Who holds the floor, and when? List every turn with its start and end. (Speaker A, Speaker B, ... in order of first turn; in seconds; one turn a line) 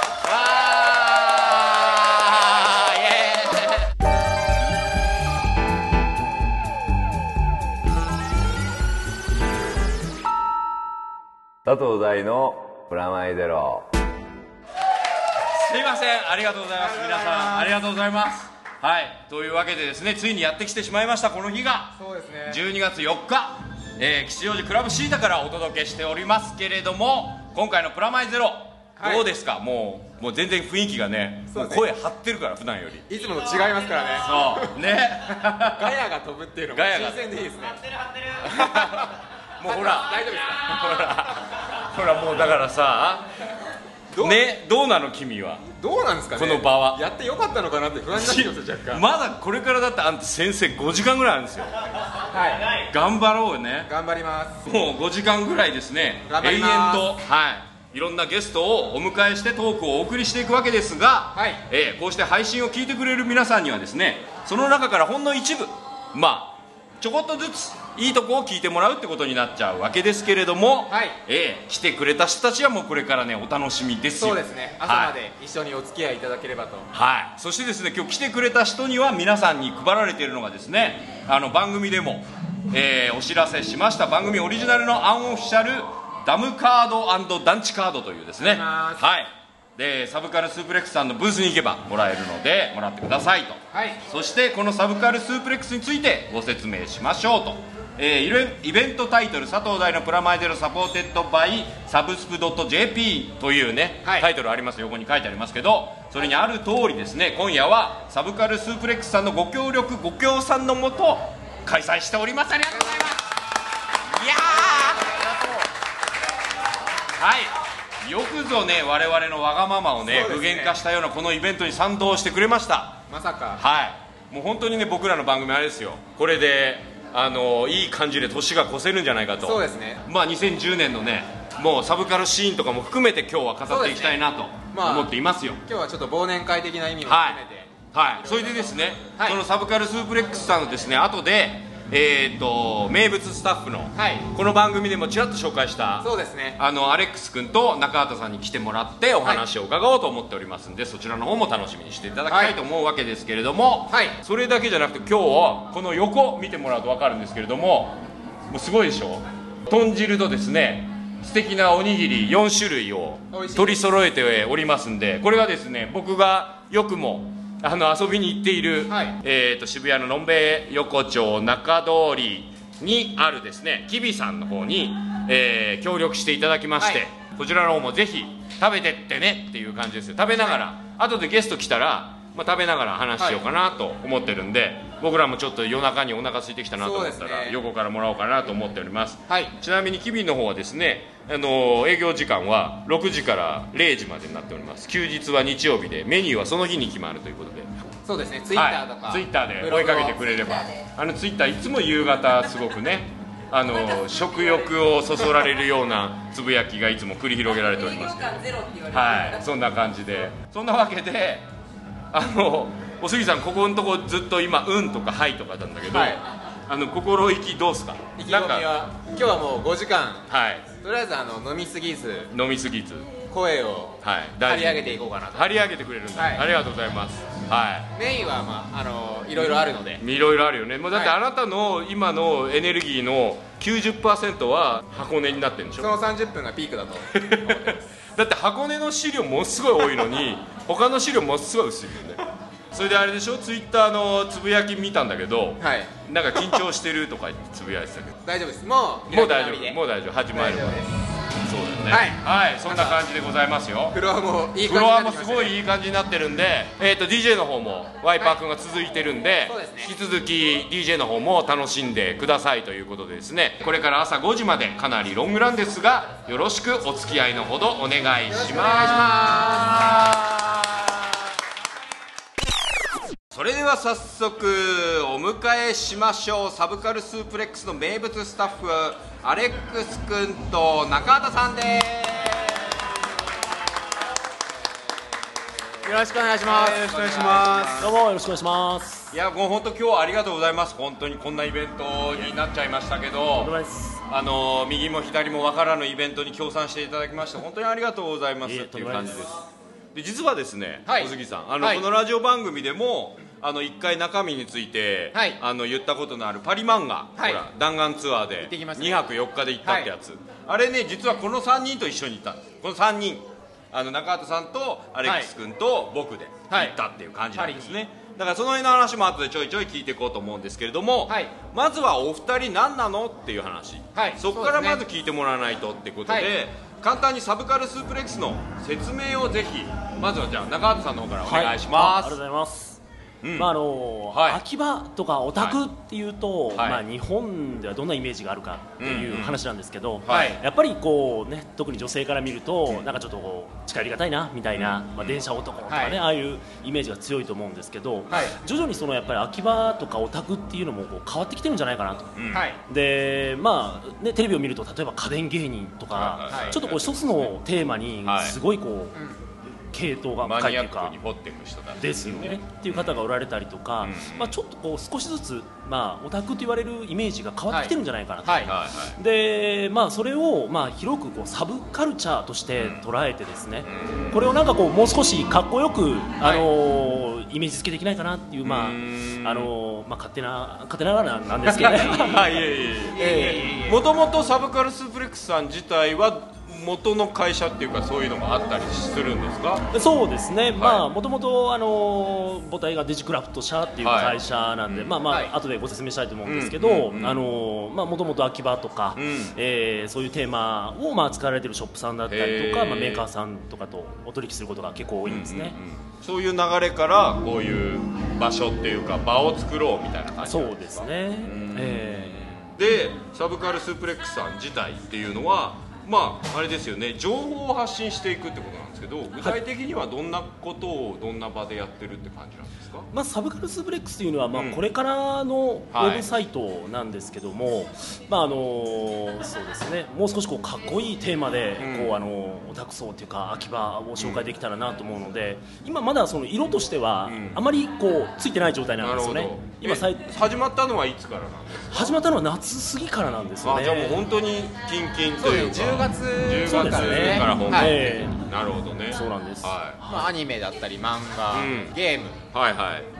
Speaker A: 0.2-3.8
Speaker B: 11.7-13.8
Speaker A: 15.5-33.1
Speaker C: 16.8-17.7
Speaker C: 22.0-22.6
Speaker C: 29.0-29.2
Speaker C: 31.5-31.8
Speaker C: 33.1-34.8
Speaker A: 34.2-35.9
Speaker C: 35.4-41.3
Speaker A: 36.7-37.2
Speaker A: 38.4-43.3
Speaker C: 44.1-44.4
Speaker A: 44.2-45.7
Speaker C: 45.7-49.0
Speaker A: 46.4-47.0
Speaker A: 48.1-51.8
Speaker C: 52.3-52.8
Speaker A: 52.9-53.9
Speaker C: 53.9-54.6
Speaker A: 54.6-75.1
Speaker C: 56.3-57.1
Speaker C: 61.3-61.6
Speaker C: 70.9-71.2
Speaker C: 74.2-76.9
Speaker A: 76.9-113.1
Speaker C: 88.4-89.0
Speaker C: 93.7-94.0
Speaker C: 112.7-113.1
Speaker A: 114.2-115.2
Speaker C: 114.2-115.7
Speaker A: 117.2-123.0
Speaker C: 120.1-120.8
Speaker C: 123.1-123.6
Speaker A: 123.5-135.6
Speaker C: 129.4-130.0
Speaker C: 133.7-134.2
Speaker C: 134.7-139.4
Speaker A: 137.0-137.4
Speaker A: 137.9-197.7
Speaker C: 143.9-144.2
Speaker C: 146.0-146.6
Speaker C: 152.3-152.5
Speaker C: 153.9-154.2
Speaker C: 163.3-163.8
Speaker C: 168.9-169.2
Speaker C: 186.8-187.5
Speaker C: 198.1-200.2
Speaker A: 198.5-211.5
Speaker A: 212.1-218.7
Speaker C: 218.2-222.3
Speaker A: 220.3-220.7
Speaker A: 222.3-223.1
Speaker C: 223.3-225.5
Speaker A: 224.0-227.9
Speaker C: 226.2-226.4
Speaker C: 227.9-230.0
Speaker A: 229.4-235.9
Speaker C: 235.8-237.8
Speaker A: 237.1-242.2
Speaker A: 242.7-248.2
Speaker C: 245.6-246.6
Speaker C: 248.2-249.8
Speaker A: 249.1-250.8
Speaker C: 250.3-250.9
Speaker A: 251.4-254.0
Speaker C: 251.9-253.0
Speaker C: 253.9-255.6
Speaker A: 254.6-270.9
Speaker C: 259.5-259.9
Speaker C: 268.3-270.0
Speaker A: 273.3-282.4
Speaker C: 285.8-287.7
Speaker A: 286.4-288.0
Speaker D: 287.8-289.1
Speaker A: 289.1-293.5
Speaker D: 293.3-294.0
Speaker A: 294.1-332.2
Speaker D: 298.4-299.2
Speaker C: 300.9-301.8
Speaker C: 305.1-305.4
Speaker C: 307.2-307.4
Speaker C: 308.4-309.1
Speaker C: 309.6-309.9
Speaker C: 315.0-315.3
Speaker C: 316.5-316.8
Speaker C: 317.3-317.7
Speaker C: 323.9-324.8
Speaker D: 331.2-332.8
Speaker A: 333.2-333.5
Speaker D: 333.4-359.0
Speaker A: 334.1-334.4
Speaker A: 336.5-336.8
Speaker A: 338.8-339.4
Speaker A: 340.0-340.4
Speaker C: 340.1-340.4
Speaker A: 344.5-345.2
Speaker C: 345.7-346.0
Speaker C: 348.1-348.3
Speaker A: 352.2-352.4
Speaker C: 352.3-352.6
Speaker A: 355.9-357.4
Speaker C: 356.3-356.6
Speaker A: 358.0-358.4
Speaker D: 359.7-360.9
Speaker A: 360.2-363.0
Speaker D: 361.8-383.5
Speaker A: 363.8-364.4
Speaker C: 368.2-368.5
Speaker A: 368.4-369.0
Speaker A: 372.6-372.8
Speaker A: 373.6-374.3
Speaker C: 376.2-376.5
Speaker A: 378.4-379.5
Speaker C: 381.5-382.3
Speaker A: 381.7-389.7
Speaker C: 382.9-383.8
Speaker D: 389.7-405.6
Speaker A: 390.6-390.9
Speaker A: 393.8-395.0
Speaker A: 396.2-397.2
Speaker A: 398.9-399.4
Speaker A: 402.1-403.1
Speaker A: 405.1-422.9
Speaker D: 410.2-412.5
Speaker D: 422.9-440.1
Speaker A: 424.3-424.6
Speaker A: 425.7-426.1
Speaker A: 431.6-432.0
Speaker A: 433.9-434.2
Speaker A: 437.0-437.4
Speaker A: 438.8-442.0
Speaker D: 441.7-444.0
Speaker A: 443.4-449.8
Speaker C: 445.2-447.9
Speaker D: 446.4-448.2
Speaker D: 448.9-450.1
Speaker C: 449.9-452.2
Speaker A: 451.3-451.8
Speaker A: 452.3-452.9